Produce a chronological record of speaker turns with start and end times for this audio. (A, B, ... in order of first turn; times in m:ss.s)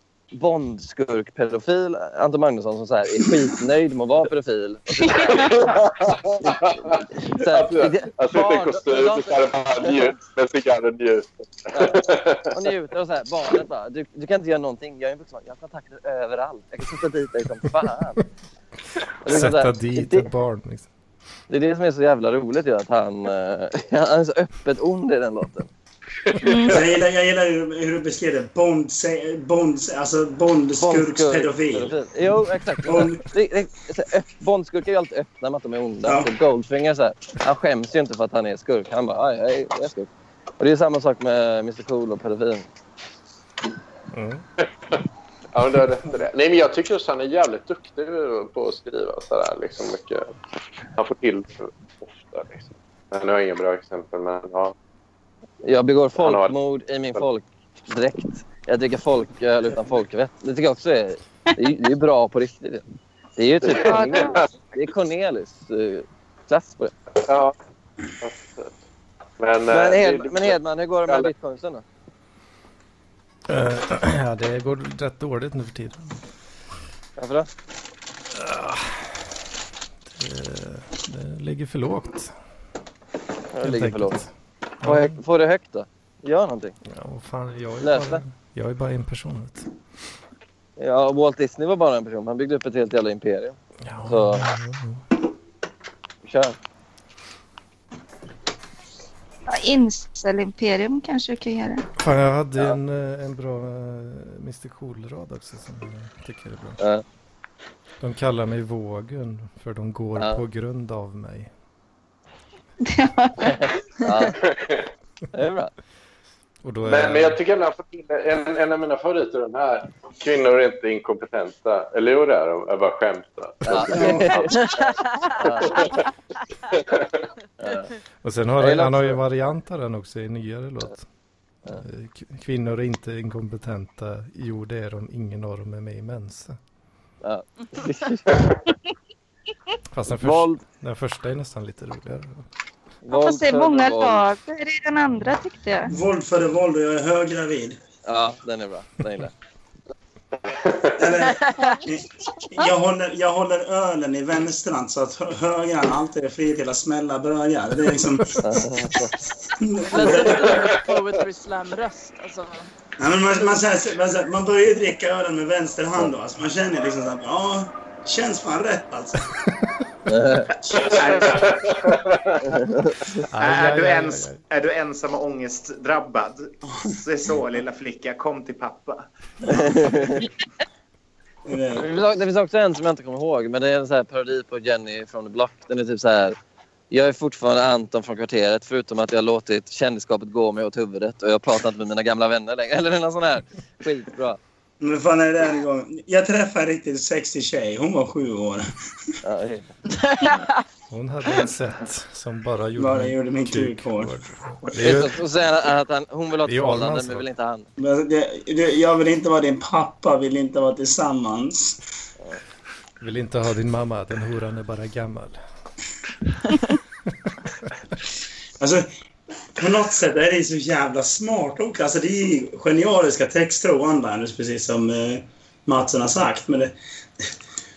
0:00.3-0:05.8 A
0:05.0-0:05.6 B
0:05.4-0:12.6 C
0:06.4-0:10.2 A
0:11.7-0:18.2 A
0:19.2-0:20.3 A
0:19.2-0:20.9 D
0:21.5-0:25.7 A
0:26.3-0:26.7 C
0:26.4-0:26.9 B
0:26.7-0:32.0 E
0:30.8-0:42.7 A
0:32.8-0:33.2 E
0:36.0-0:36.3 E
0:44.1-0:44.4 D
0:45.5-0:50.3 C
0:51.0-0:54.7 C
0:55.6-1:02.8 A
0:56.2-0:56.6 C
1:03.4-1:06.9 A
1:03.6-1:04.5 C
1:03.8-1:04.4 B
1:07.3-1:07.6 C
1:08.2-1:08.8 C
1:09.4-1:11.3 C
1:09.7-1:11.8 A
1:13.5-1:16.2 D
1:17.2-1:17.5 A
1:18.3-1:19.1 D
1:20.1-1:22.3 D
1:23.5-1:24.2 A
1:23.6-1:24.3 D
1:24.8-1:25.2 D
1:24.8-1:26.8 A
1:26.9-1:29.7 D
1:27.8-1:28.2 A
1:30.8-1:34.5 A
1:33.8-1:35.0 D
1:36.2-1:36.6 A
1:39.5-1:41.8 B
1:42.0-1:46.8 D
1:48.0-1:51.5 D
1:50.2-1:50.4 A
1:52.8-1:53.5 B
1:53.4-1:54.4 A
1:54.4-1:54.9 C
1:55.3-1:55.7 A
1:56.6-1:57.4 D
1:56.8-2:06.0 C
2:03.6-2:05.9 A
2:03.9-2:04.4 E
2:04.6-2:06.0 F
2:06.7-2:07.3 C
2:07.6-2:07.9 A
2:08.2-2:11.0 D
2:08.6-2:09.2 A
2:11.7-2:16.6 D
2:17.2-2:18.6 A
2:19.9-2:22.4 D
2:20.2-2:20.6 A
2:23.0-2:24.2 A
2:23.1-2:25.9 B
2:25.9-2:27.8 E
2:28.0-2:29.3 A
2:30.6-2:30.9 C
2:31.0-2:38.6 E
2:31.1-2:31.8 F
2:38.4-2:39.2 A
2:39.6-2:40.8 E
2:39.9-2:42.7 F
2:40.4-2:40.7 C
2:43.0-2:49.4 E
2:50.1-2:50.5 A
2:50.6-2:52.0 G
2:50.8-2:52.5 C
2:52.4-2:53.2 A
2:53.3-2:54.4 D
2:53.4-2:59.1 G
2:59.5-3:00.3 A
3:01.5-3:01.8 E
3:01.7-3:06.4 A
3:06.9-3:14.4 A
3:14.8-3:18.7 E
3:19.2-3:19.7 A
3:19.9-3:20.6 F
3:20.9-3:25.2 D
3:22.8-3:24.1 E
3:24.8-3:27.7 A
3:26.5-3:27.3 D
3:27.8-3:31.8 E
3:33.0-3:35.4 D
3:38.6-3:38.9 E
3:39.6-3:46.8 E